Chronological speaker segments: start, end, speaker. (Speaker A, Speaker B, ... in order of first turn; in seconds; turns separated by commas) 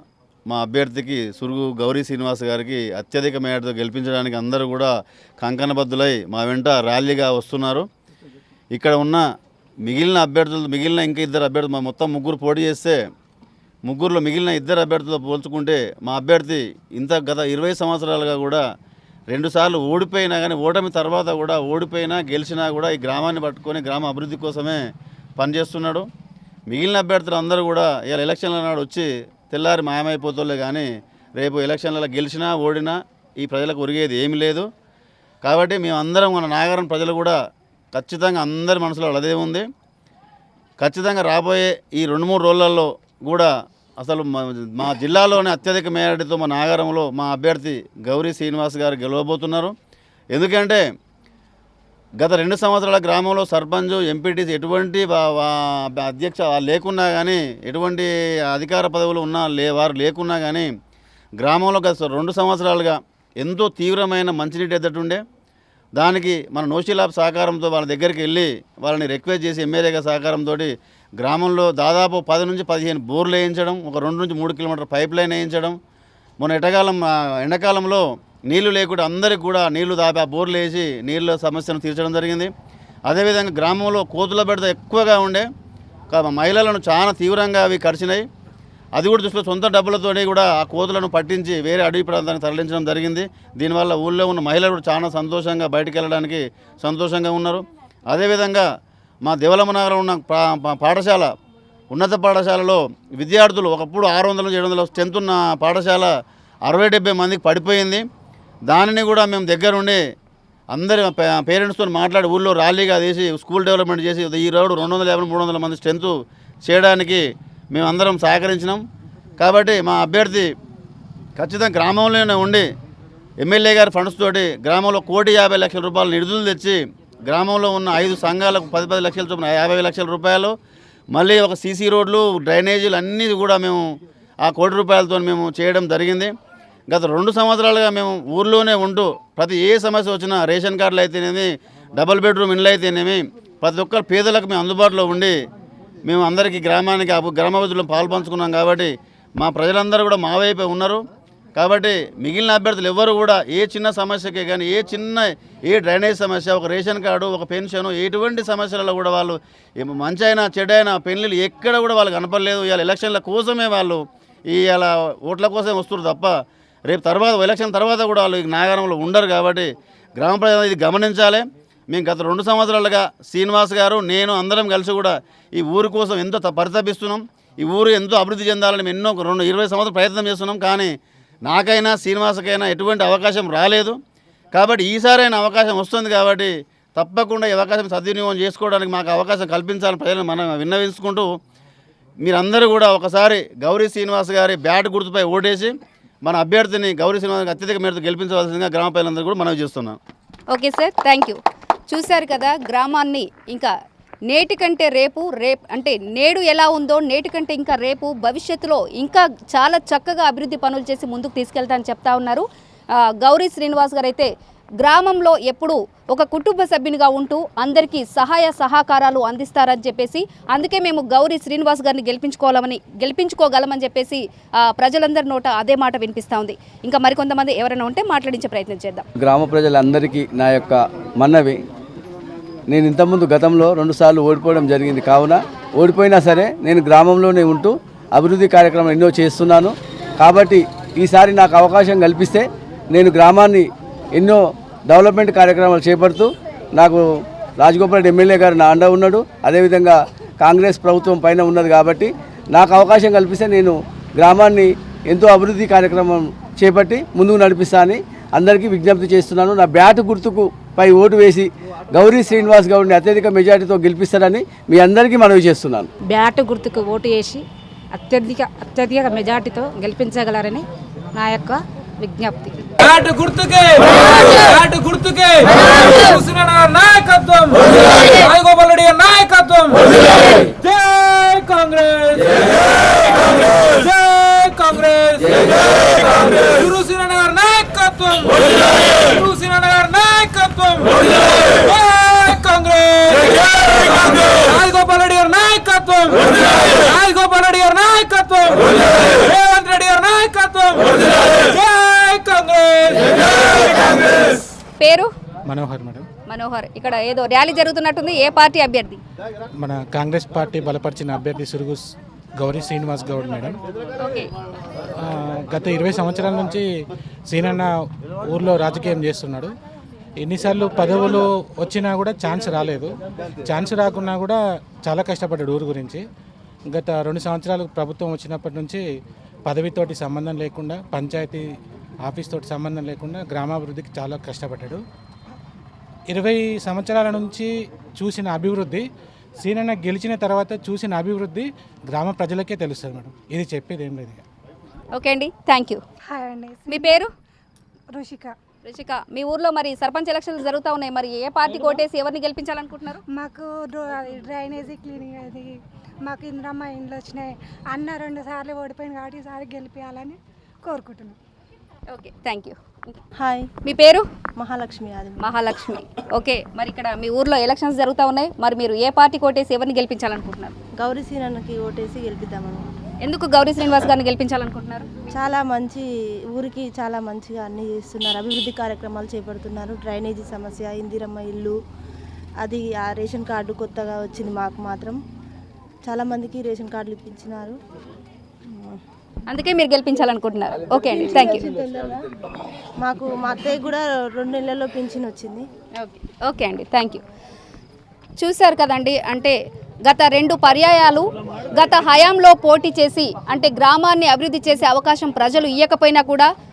Speaker A: 0.5-7.8, Speaker A: 8.7-9.2, Speaker A: 9.8-13.0, Speaker A: 13.8-18.6, Speaker A: 19.3-24.8, Speaker A: 25.4-26.1, Speaker A: 26.7-34.7, Speaker A: 35.4-37.4, Speaker A: 37.9-39.7, Speaker A: 40.8-49.7, Speaker A: 50.3-50.8, Speaker A: 52.2-60.7, Speaker A: 61.4-65.2, Speaker A: 66.0-75.8, Speaker A: 76.4-82.5, Speaker A: 83.1-85.5, Speaker A: 86.1-88.3, Speaker A: 88.9-98.7, Speaker A: 99.2-101.3, Speaker A: 101.9-108.0, Speaker A: 108.7-110.0, Speaker A: 110.7-118.8, Speaker A: 119.4-120.5, Speaker A: 121.3-122.7, Speaker A: 123.4-130.5, Speaker A: 131.1-133.8, Speaker A: 134.4-136.3, Speaker A: 136.9-145.3, Speaker A: 146.0-151.0, Speaker A: 151.6-180.9, Speaker A: 181.4-184.0, Speaker A: 184.5-191.3, Speaker A: 192.2-200.0, Speaker B: 200.5-203.7, Speaker B: 204.3-212.4, Speaker B: 213.2-214.3, Speaker B: 214.8-229.1, Speaker C: 229.2-231.6, Speaker C: 232.7-247.0, Speaker C: 247.6-265.9, Speaker D: 266.0-272.6, Speaker E: 272.8-303.4, Speaker B: 304.8-305.1, Speaker F: 305.5-306.1, Speaker B: 306.3-309.0, Speaker F: 309.6-311.8, Speaker F: 312.4-313.6, Speaker B: 314.0-314.3, Speaker F: 315.0-316.6, Speaker F: 317.3-317.7, Speaker F: 318.3-319.5, Speaker F: 320.2-322.9, Speaker F: 323.4-326.0, Speaker F: 326.7-328.8, Speaker F: 329.5-331.4, Speaker F: 332.1-334.8, Speaker F: 336.1-338.8, Speaker F: 339.4-344.2, Speaker B: 344.9-345.8, Speaker G: 346.1-347.1, Speaker B: 346.7-347.1, Speaker G: 347.9-348.3, Speaker B: 348.6-353.0, Speaker G: 353.1-361.1, Speaker B: 361.9-362.6, Speaker H: 363.2-363.5, Speaker B: 363.6-364.0, Speaker H: 364.4-365.3, Speaker B: 365.2-370.5, Speaker H: 370.8-372.6, Speaker B: 373.0-374.9, Speaker H: 375.1-381.5, Speaker H: 382.4-385.0, Speaker H: 385.8-387.6, Speaker H: 388.5-388.8, Speaker B: 389.3-391.4, Speaker H: 391.0-392.1, Speaker H: 392.8-395.4, Speaker B: 395.8-397.0, Speaker B: 398.2-399.3, Speaker B: 399.9-406.3